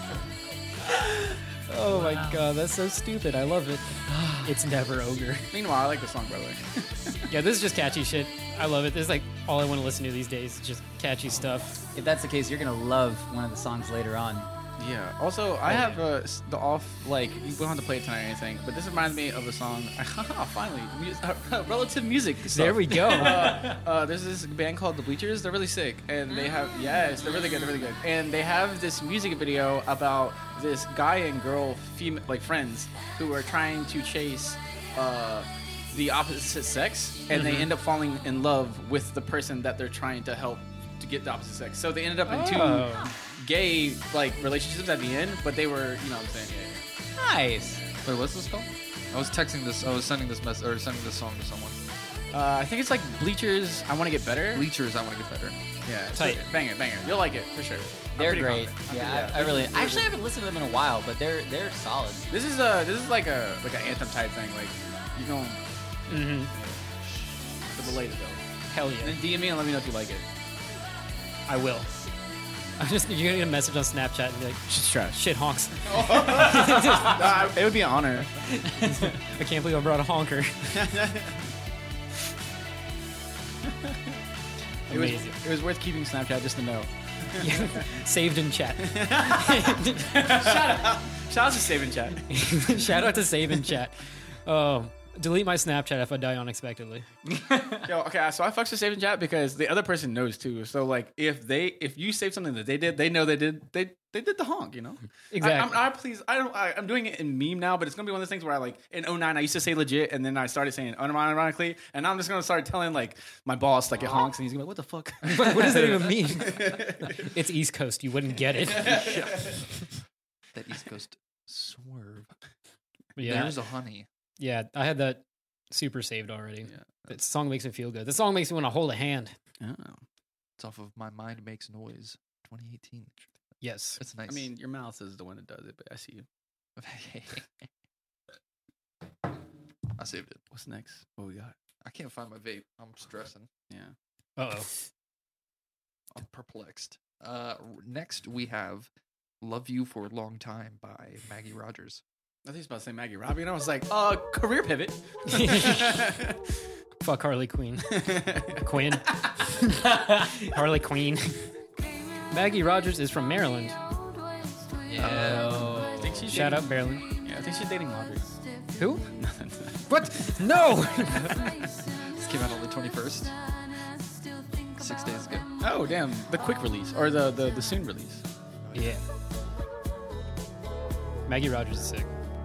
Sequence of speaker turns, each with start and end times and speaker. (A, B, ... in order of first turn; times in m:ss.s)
0:01.6-0:05.5 A
0:01.9-0:02.4 B
0:04.1-0:04.5 B
0:05.5-0:07.3 C
0:07.3-0:11.8 A
0:12.0-0:14.5 B
0:14.8-0:46.9 C
0:22.5-0:23.6 A
0:23.3-0:23.7 B
0:26.3-0:27.9 B
0:37.3-0:37.7 B
0:42.3-0:43.1 A
0:42.5-0:42.8 B
0:47.2-0:47.8 B
0:48.0-0:51.8 D
0:52.3-0:54.7 C
0:54.5-0:55.6 D
0:55.9-1:00.2 C
0:56.2-0:56.4 A
0:58.2-1:02.3 B
1:02.3-1:06.8 C
1:06.1-1:06.5 A
1:07.6-1:08.4 C
1:08.7-1:09.2 A
1:09.0-1:10.3 C
1:11.5-1:11.9 A
1:12.8-1:17.3 A
1:14.7-1:15.2 C
1:15.8-1:18.4 C
1:18.7-1:20.9 A
1:20.7-1:21.4 C
1:24.9-1:25.4 A
1:24.9-1:27.8 C
1:27.4-1:30.5 A
1:28.8-1:33.0 C
1:32.3-1:37.1 A
1:37.4-1:37.9 B
1:37.8-1:57.3 C
1:45.3-1:45.8 A
1:55.3-1:59.0 A
1:55.3-1:55.9 D
1:58.6-1:59.6 C
1:58.7-1:59.8 D
2:00.5-2:02.3 D
2:03.2-2:03.6 A
2:03.2-2:04.1 D
2:04.4-2:09.3 A
2:09.6-2:10.0 C
2:10.6-2:13.3 D
2:13.6-2:14.0 A
2:14.0-2:14.5 D
2:14.3-2:16.3 C
2:16.8-2:17.5 D
2:20.0-2:20.4 D
2:20.5-2:21.6 C
2:21.8-2:23.5 D
2:23.7-2:24.0 C
2:24.4-2:24.7 A
2:26.1-2:28.9 D
2:29.4-2:32.0 D
2:32.4-2:36.4 C
2:35.3-2:36.1 A
2:37.0-2:41.4 A
2:37.9-2:38.6 C
2:42.3-2:43.8 A
2:44.9-2:45.8 D
2:45.0-2:46.4 B
2:45.0-2:48.4 C
2:46.3-2:47.1 A
2:48.8-2:49.1 A
2:49.1-2:49.8 C
2:49.9-2:51.5 A
2:52.2-2:53.3 D
2:54.8-2:55.5 D
2:55.6-2:58.2 C
2:58.7-2:59.0 A
3:01.3-3:02.1 A